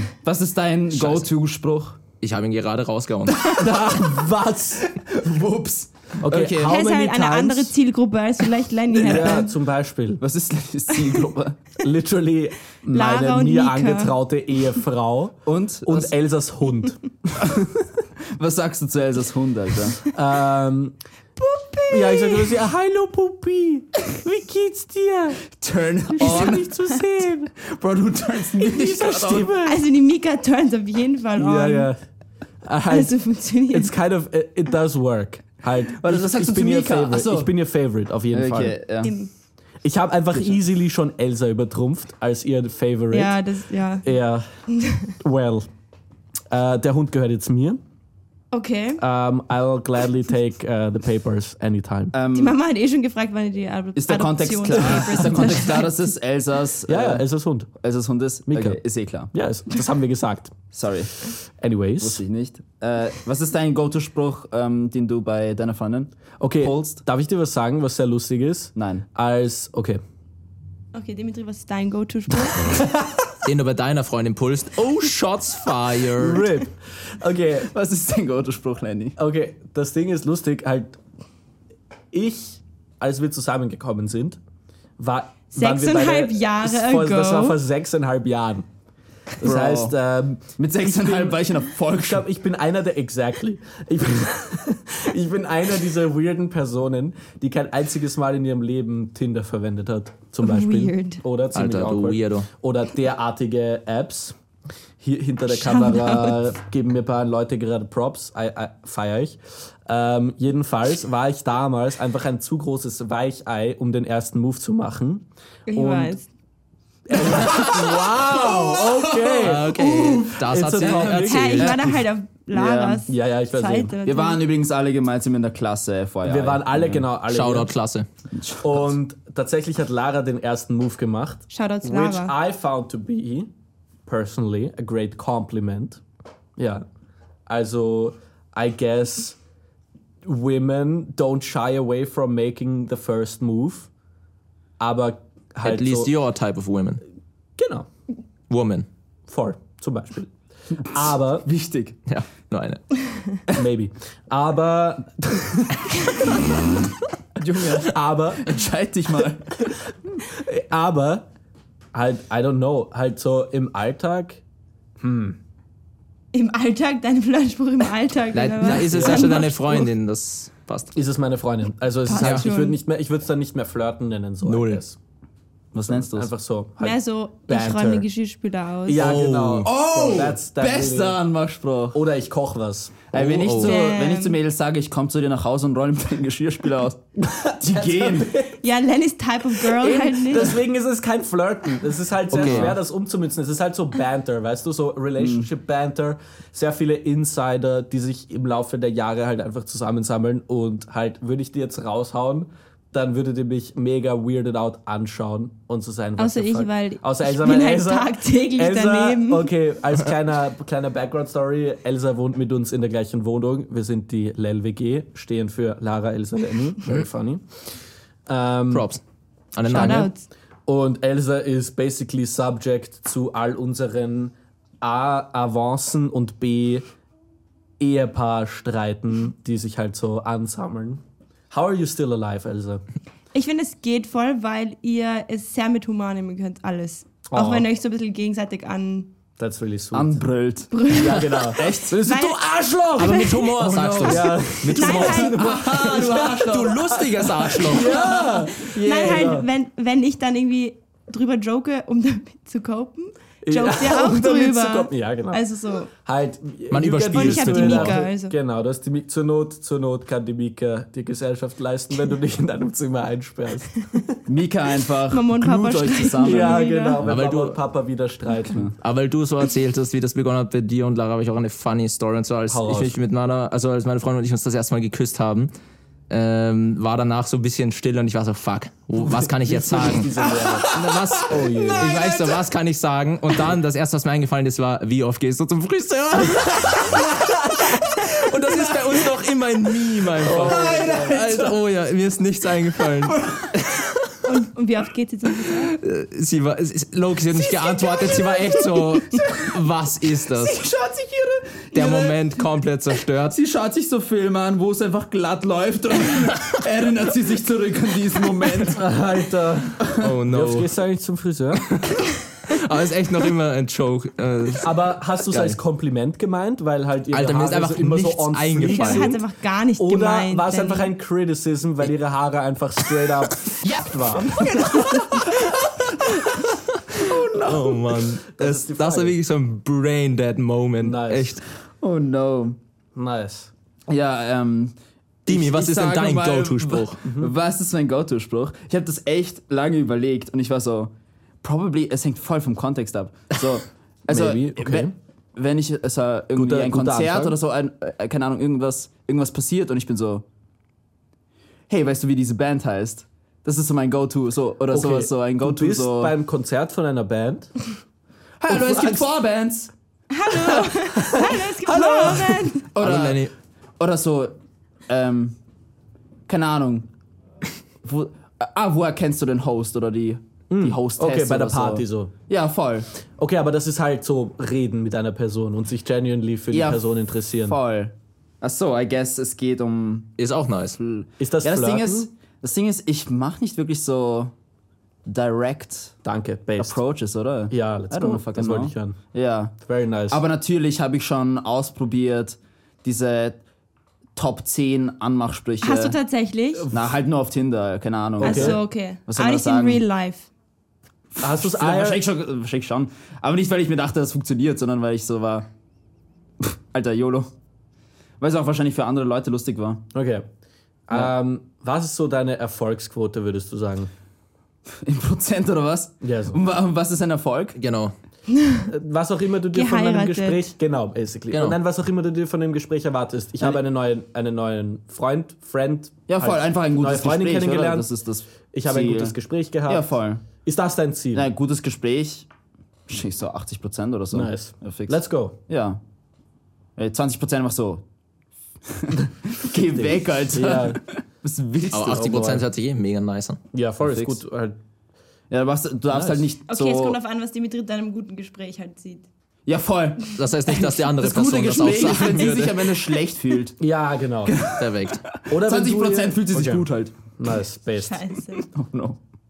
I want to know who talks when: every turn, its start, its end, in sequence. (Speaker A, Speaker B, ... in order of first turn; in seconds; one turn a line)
Speaker A: 0.1-2.0
Speaker B: 0.9-1.3
Speaker B: 2.2-3.5
Speaker C: 3.5-4.8
Speaker A: 4.8-6.8
Speaker C: 6.2-7.7
Speaker D: 6.6-9.5
Speaker A: 9.0-9.3
Speaker C: 9.0-10.2
Speaker A: 10.2-11.6
Speaker C: 11.8-17.6
Speaker D: 12.9-14.1
Speaker A: 15.4-16.1
Speaker A: 17.4-20.0
Speaker C: 20.1-21.0
Speaker D: 21.4-22.5
Speaker C: 21.9-25.4
Speaker A: 25.5-26.7
Speaker D: 26.1-26.9
Speaker C: 26.2-27.5
Speaker A: 27.5-29.5
Speaker C: 28.6-29.8
Speaker D: 29.6-31.9
Speaker C: 31.4-32.0
Speaker C: 32.6-33.1
Speaker D: 32.9-33.9
Speaker C: 33.7-38.8
Speaker A: 36.0-37.5
Speaker A: 38.3-39.1
Speaker D: 39.0-39.3
Speaker C: 39.8-43.4
Speaker D: 43.1-44.1
Speaker C: 44.0-44.5
Speaker D: 44.7-45.1
Speaker C: 45.2-45.7
Speaker C: 46.5-47.8
Speaker D: 48.5-49.0
Speaker C: 49.0-52.1
Speaker A: 52.1-52.6
Speaker D: 52.3-56.0
Speaker A: 54.0-57.2
Speaker C: 56.9-57.7
Speaker A: 57.8-59.3
Speaker C: 58.5-58.8
Speaker C: 59.3-60.5
Speaker A: 60.7-61.1
Speaker C: 61.5-62.2
Speaker A: 62.0-67.0
Speaker C: 66.4-70.0
Speaker A: 68.8-69.0
Speaker D: 70.9-72.7
Speaker C: 72.5-73.2
Speaker B: 73.4-76.5
Speaker C: 76.1-77.7
Speaker A: 77.7-79.2
Speaker C: 79.2-81.0
Speaker C: 82.1-84.4
Speaker C: 85.0-88.7
Speaker D: 85.5-87.6
Speaker C: 89.4-91.4
Speaker A: 89.4-89.9
Speaker A: 90.6-92.2
Speaker C: 91.9-104.3
Speaker D: 100.4-101.2
Speaker B: 101.5-102.5
Speaker C: 105.0-116.2
Speaker D: 105.5-106.4
Speaker D: 115.7-116.3
Speaker C: 117.1-121.7
Speaker A: 117.6-119.6
Speaker B: 119.4-121.8
Speaker A: 120.8-122.0
Speaker D: 121.2-124.4
Speaker A: 122.5-123.0
Speaker C: 123.1-123.9
Speaker A: 124.0-127.0
Speaker C: 126.2-127.7
Speaker B: 127.3-128.1
Speaker A: 128.3-128.8
Speaker C: 128.6-133.5
Speaker D: 131.5-132.3
Speaker C: 134.1-136.0
Speaker C: 136.6-136.8
Speaker C: 137.5-139.4
Speaker C: 140.2-143.9
Speaker C: 144.8-146.1
Speaker B: 145.6-147.0
Speaker C: 147.6-147.9
Speaker B: 148.5-148.9
Speaker C: 149.3-150.3
Speaker C: 150.8-151.5
Speaker A: 151.4-152.0
Speaker B: 152.1-152.8
Speaker C: 153.5-156.3
Speaker A: 157.4-159.6
Speaker C: 157.8-158.6
Speaker C: 160.1-161.3
Speaker C: 161.9-164.4
Speaker C: 165.0-165.4
Speaker D: 166.3-169.9
Speaker B: 168.3-170.9
Speaker C: 168.6-169.5
Speaker C: 170.9-175.0
Speaker D: 172.0-172.8
Speaker B: 172.2-172.4
Speaker B: 174.4-174.8
Speaker A: 175.7-176.3
Speaker C: 175.8-178.1
Speaker D: 176.8-179.1
Speaker C: 178.8-181.2
Speaker B: 178.9-179.7
Speaker A: 179.6-182.0
Speaker C: 181.9-183.1
Speaker A: 183.1-187.0
Speaker B: 183.1-183.8
Speaker D: 183.6-184.4
Speaker C: 187.2-188.6
Speaker A: 187.6-188.3
Speaker D: 188.5-190.6
Speaker C: 189.5-217.4
Speaker B: 192.3-192.8
Speaker A: 192.3-192.7
Speaker A: 195.2-195.5
Speaker D: 206.2-209.5
Speaker C: 218.3-218.9
Speaker B: 218.7-219.0
Speaker B: 219.5-220.1
Speaker D: 219.6-220.2
Speaker C: 219.7-220.1
Speaker C: 220.7-226.8
Speaker C: 227.8-232.8
Speaker D: 233.3-239.1
Speaker C: 237.3-237.7
Speaker C: 239.4-240.3
Speaker A: 239.9-240.7
Speaker D: 240.7-243.5
Speaker C: 240.9-243.5
Speaker A: 241.5-242.0
Speaker B: 243.0-248.0
Speaker A: 243.6-249.4
Speaker C: 244.0-249.5
Speaker D: 244.4-245.4
Speaker D: 248.1-255.9
Speaker C: 253.4-255.4
Speaker C: 255.9-264.2
Speaker B: 256.7-258.0
Speaker D: 257.1-258.3
Speaker A: 264.3-266.7
Speaker D: 265.1-267.0
Speaker C: 266.2-268.7
Speaker B: 267.0-267.6
Speaker A: 268.5-268.7
Speaker B: 268.8-275.5
Speaker C: 272.5-272.9
Speaker B: 276.1-294.0
Speaker C: 279.0-280.7
Speaker A: 280.4-282.4
Speaker C: 281.2-282.0
Speaker C: 290.2-291.2
Speaker A: 290.2-291.6
Speaker A: 293.0-293.6
Speaker D: 294.2-295.7
Speaker B: 295.4-300.6
Speaker A: 297.4-299.5
Speaker A: 300.1-302.4
Speaker B: 301.7-303.4
Speaker A: 303.3-308.8
Speaker C: 308.6-311.8
Speaker A: 309.8-310.1
Speaker B: 310.0-310.7
Speaker B: 312.4-315.6
Speaker C: 314.6-319.2
Speaker B: 317.1-319.2
Speaker D: 318.6-320.9
Speaker C: 319.8-325.0
Speaker A: 323.6-328.0
Speaker B: 327.3-331.4
Speaker C: 328.3-329.2
Speaker C: 330.8-331.4
Speaker A: 331.8-332.6
Speaker C: 332.9-333.5
Speaker A: 333.9-334.8
Speaker B: 335.2-337.0
Speaker A: 335.3-340.9
Speaker C: 337.0-337.3
Speaker A: 341.4-350.2
Speaker C: 344.1-344.9
Speaker C: 346.3-347.4
Speaker A: 351.7-356.1
Speaker C: 354.7-357.5
Speaker A: 358.4-359.7
Speaker C: 358.5-359.1
Speaker D: 360.1-362.7
Speaker C: 360.8-362.5
Speaker A: 362.7-364.4
Speaker B: 362.8-363.3
Speaker A: 364.9-365.4
Speaker A: 366.3-366.9
Speaker A: 367.8-372.9
Speaker C: 370.5-372.1
Speaker C: 373.2-377.6
Speaker A: 376.5-376.8
Speaker A: 377.4-380.1
Speaker B: 380.2-380.8
Speaker A: 380.8-384.3
Speaker C: 381.2-382.1
Speaker A: 385.1-385.9
Speaker C: 386.0-386.8
Speaker A: 386.6-389.5
Speaker C: 387.5-389.0
Speaker C: 389.6-390.2
Speaker A: 390.1-393.4
Speaker A: 394.1-396.0
Speaker D: 395.6-396.7
Speaker A: 396.7-399.8
Speaker C: 398.2-398.6
Speaker D: 398.2-400.3
Speaker A: 401.1-405.5
Speaker C: 401.2-402.1
Speaker A: 406.4-407.3
Speaker A: 408.2-409.8
Speaker C: 409.9-410.2
Speaker C: 410.9-413.9
Speaker A: 414.8-417.6
Speaker C: 416.0-416.4
Speaker B: 417.6-417.9
Speaker D: 418.3-418.7
Speaker C: 418.7-427.9
Speaker D: 419.5-420.4
Speaker B: 421.3-421.6
Speaker A: 426.1-429.1
Speaker C: 428.5-431.3
Speaker A: 429.7-430.2
Speaker A: 431.1-432.3
Speaker A: 432.9-435.8
Speaker C: 434.1-435.4
Speaker A: 436.8-437.8
Speaker A: 438.7-442.3
Speaker C: 439.6-440.8
Speaker B: 441.7-443.4
Speaker C: 441.9-442.4
Speaker C: 443.5-444.6
Speaker A: 443.8-444.2
Speaker A: 445.3-447.0
Speaker C: 445.9-446.3
Speaker D: 446.5-449.1
Speaker A: 449.4-453.6
Speaker B: 450.1-452.8
Speaker C: 453.6-454.4
Speaker A: 454.2-456.9
Speaker B: 454.5-455.0
Speaker C: 455.3-458.0
Speaker D: 457.8-458.4
Speaker A: 458.4-459.0